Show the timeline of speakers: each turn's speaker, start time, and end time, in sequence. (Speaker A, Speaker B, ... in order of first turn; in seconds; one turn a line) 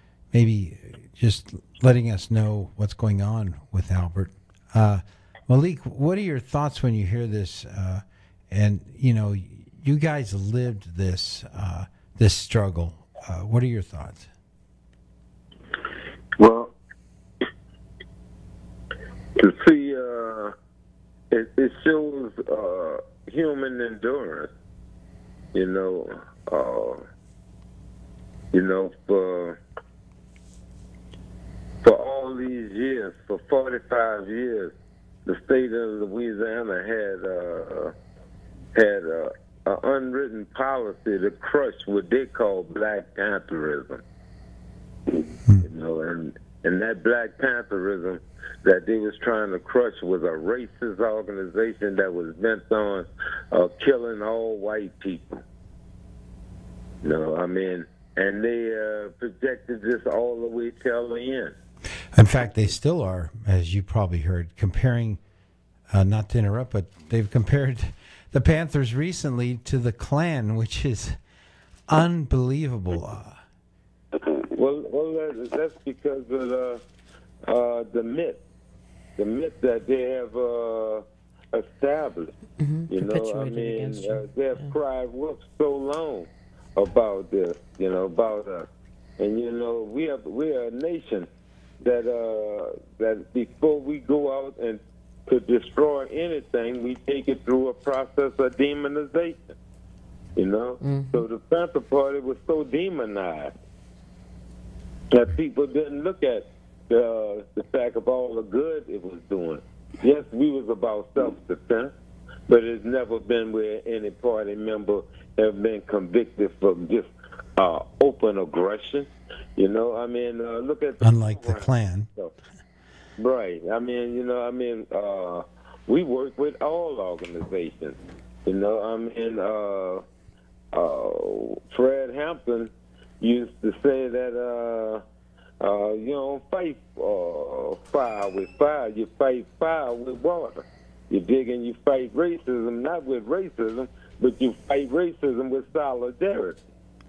Speaker A: 0.3-14.3
Speaker B: 16.4-16.7
Speaker B: 19.4-20.5
Speaker B: 21.3-24.5
Speaker B: 25.5-27.0
Speaker B: 28.5-29.6
Speaker B: 31.8-34.7
Speaker B: 35.2-37.9
Speaker B: 38.7-44.0
Speaker B: 45.6-55.4
Speaker B: 57.0-61.5
Speaker A: 62.1-65.2
Speaker A: 65.9-71.2
Speaker A: 71.9-73.4
Speaker B: 74.5-76.8
Speaker B: 77.4-78.4
Speaker B: 79.2-82.3
Speaker C: 82.6-84.7
Speaker B: 82.9-91.3
Speaker B: 91.8-99.5
Speaker B: 100.4-103.5
Speaker C: 100.8-101.2
Speaker B: 105.1-111.9
Speaker B: 112.5-122.3
Speaker A: 121.0-122.1
Speaker B: 123.2-130.0
Speaker B: 130.7-135.0
Speaker B: 135.6-146.6